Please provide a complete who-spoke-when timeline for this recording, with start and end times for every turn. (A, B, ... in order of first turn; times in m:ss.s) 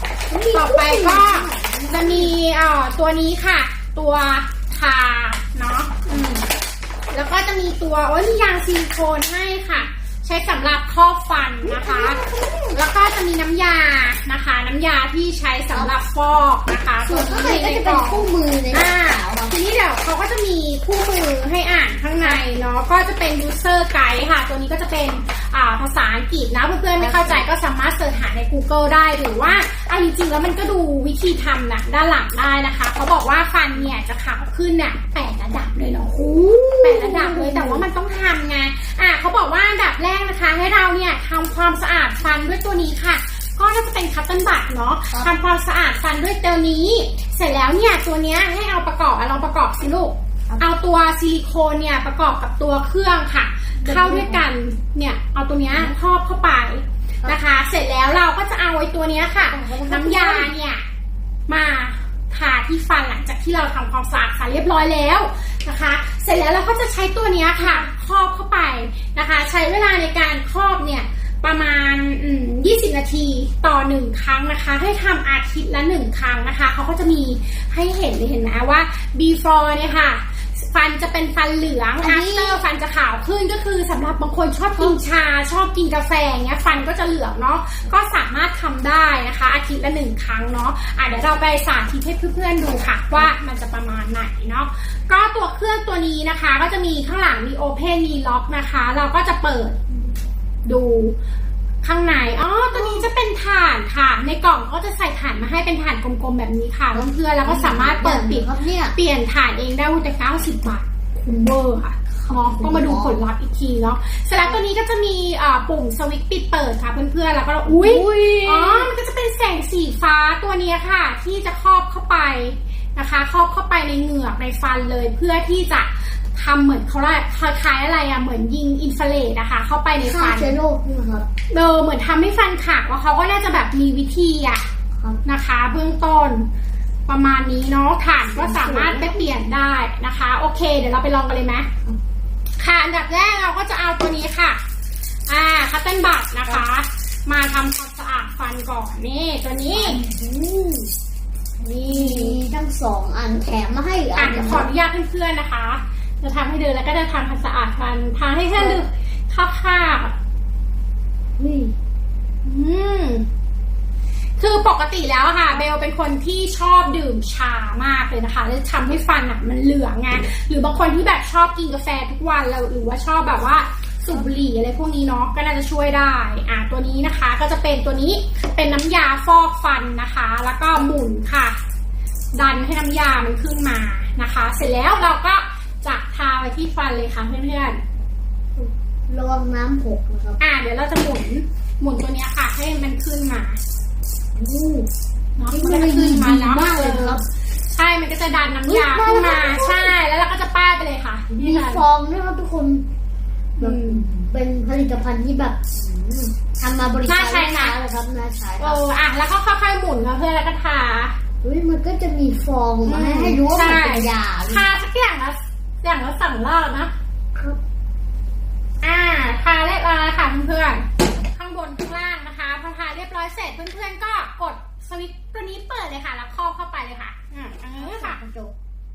0:00.3-0:02.4 A
0:00.5-0:06.5 B
0:07.1-0:12.2 B
0:11.6-0:12.8 A
0:12.7-1:00.8 B
0:17.0-0:19.6 A
0:27.0-0:27.5 A
0:36.1-0:37.9 A
0:53.8-0:54.5 A
0:59.4-1:00.5 A
1:01.5-1:39.8 B
1:07.6-1:07.9 A
1:22.0-1:22.6 A
1:40.6-1:41.2 B
1:41.8-2:10.6 B
1:42.7-1:43.0 A
1:46.9-1:49.0 A
1:52.1-1:53.2 A
1:57.6-1:58.9 A
2:10.0-2:11.2 A
2:11.5-2:14.7 B
2:14.9-2:15.2 A
2:15.2-2:16.5 B
2:17.1-2:21.7 B
2:18.4-2:19.3 A
2:22.6-2:24.6 B
2:25.3-2:30.0 B
2:29.7-2:30.9 A
2:31.6-2:32.4 B
2:31.9-2:34.7 A
2:34.2-2:40.1 B
2:38.5-2:38.8 A
2:41.4-2:41.7 A
2:42.4-2:43.3 B
2:44.4-3:01.6 B
3:02.3-3:07.8 B
3:08.6-3:10.4 A
3:10.4-3:13.6 B
3:14.4-3:14.9 A
3:15.4-3:21.8 B
3:15.5-3:17.2 A
3:18.7-3:20.0 A
3:21.3-3:22.9 A
3:23.6-3:24.1 B
3:23.6-3:28.8 A
3:27.0-3:27.8 B
3:28.6-3:31.2 B
3:31.4-3:34.7 A
3:32.8-3:36.9 B
3:38.8-3:48.2 B
3:47.8-3:48.5 A